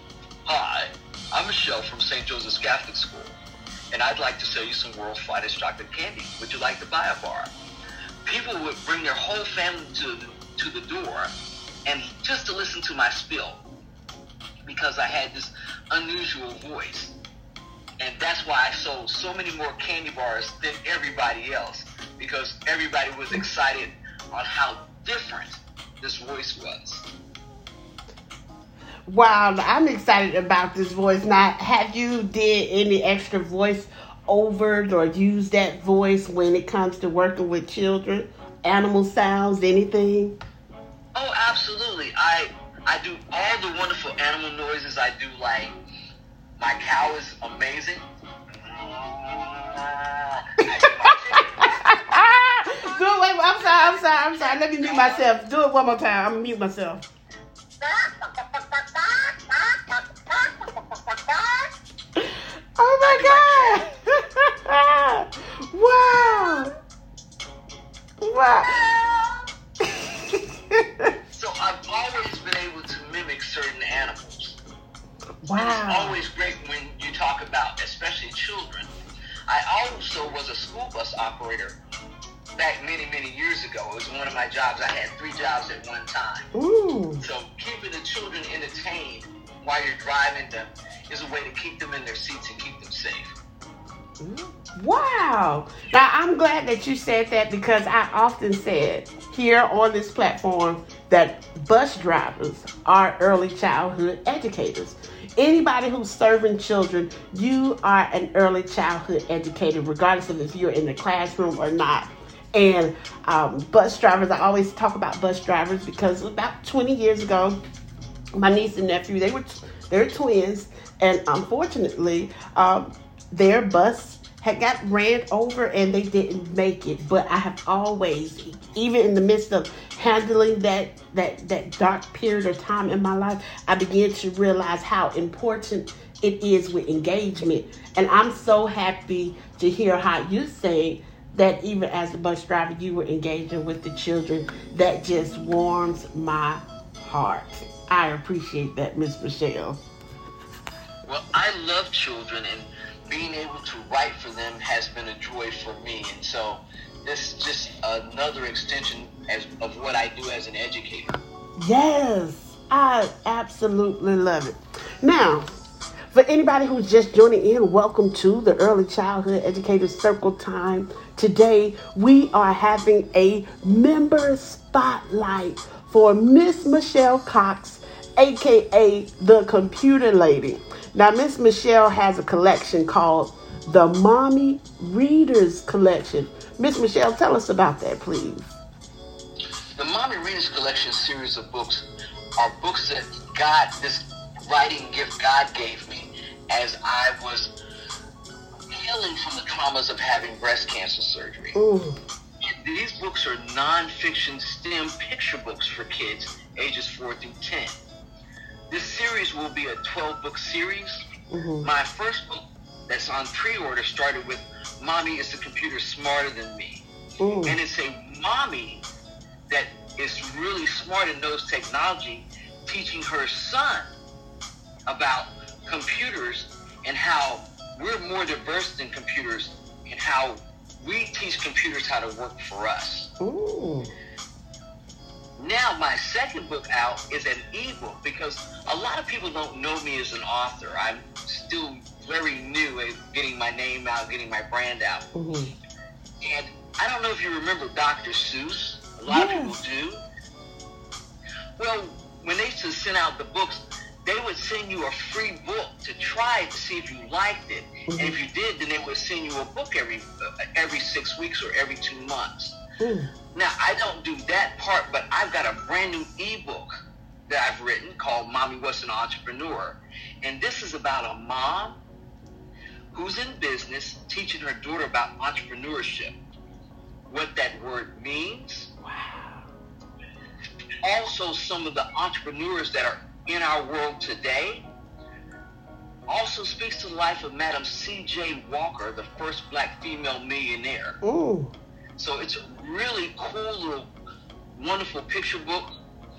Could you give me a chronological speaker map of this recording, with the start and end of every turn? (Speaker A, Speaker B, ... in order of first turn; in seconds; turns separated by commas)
Speaker A: 0.5-3.4, Speaker A: 3.9-7.5, Speaker A: 8.2-11.3, Speaker A: 11.9-13.6, Speaker A: 14.7-17.1, Speaker A: 18.0-27.1, Speaker B: 29.1-40.4, Speaker A: 41.1-45.8, Speaker A: 46.6-52.1, Speaker B: 51.5-57.1, Speaker A: 53.6-55.3, Speaker B: 62.2-66.7, Speaker A: 63.0-63.9, Speaker B: 68.2-68.8, Speaker A: 68.6-69.4, Speaker B: 69.9-71.1, Speaker A: 71.3-74.6, Speaker B: 75.4-76.2, Speaker A: 75.6-78.9, Speaker A: 79.5-81.8, Speaker A: 82.6-86.5, Speaker B: 86.5-87.2, Speaker A: 87.2-93.3, Speaker B: 94.2-117.6, Speaker B: 118.4-149.8, Speaker A: 151.1-161.2, Speaker B: 161.6-165.5, Speaker B: 166.1-188.5, Speaker A: 189.8-191.9, Speaker A: 192.4-197.5, Speaker A: 198.7-201.6, Speaker B: 201.6-202.0, Speaker A: 202.4-207.8, Speaker A: 208.7-211.1, Speaker B: 211.3-211.7, Speaker A: 211.6-216.8, Speaker B: 217.2-217.6, Speaker A: 217.4-218.8, Speaker A: 219.5-223.9, Speaker A: 224.9-233.1, Speaker B: 233.2-233.9, Speaker A: 235.4-245.1, Speaker B: 245.2-245.5, Speaker A: 246.2-250.0, Speaker B: 249.1-249.6, Speaker A: 251.6-262.6, Speaker B: 257.9-258.2, Speaker B: 262.8-263.1, Speaker A: 263.3-266.7, Speaker A: 267.3-271.8, Speaker A: 272.9-276.1, Speaker A: 277.1-278.7, Speaker B: 278.8-279.5, Speaker A: 280.8-284.6, Speaker A: 286.1-291.0, Speaker B: 291.0-291.5, Speaker A: 292.0-293.9, Speaker A: 294.5-295.7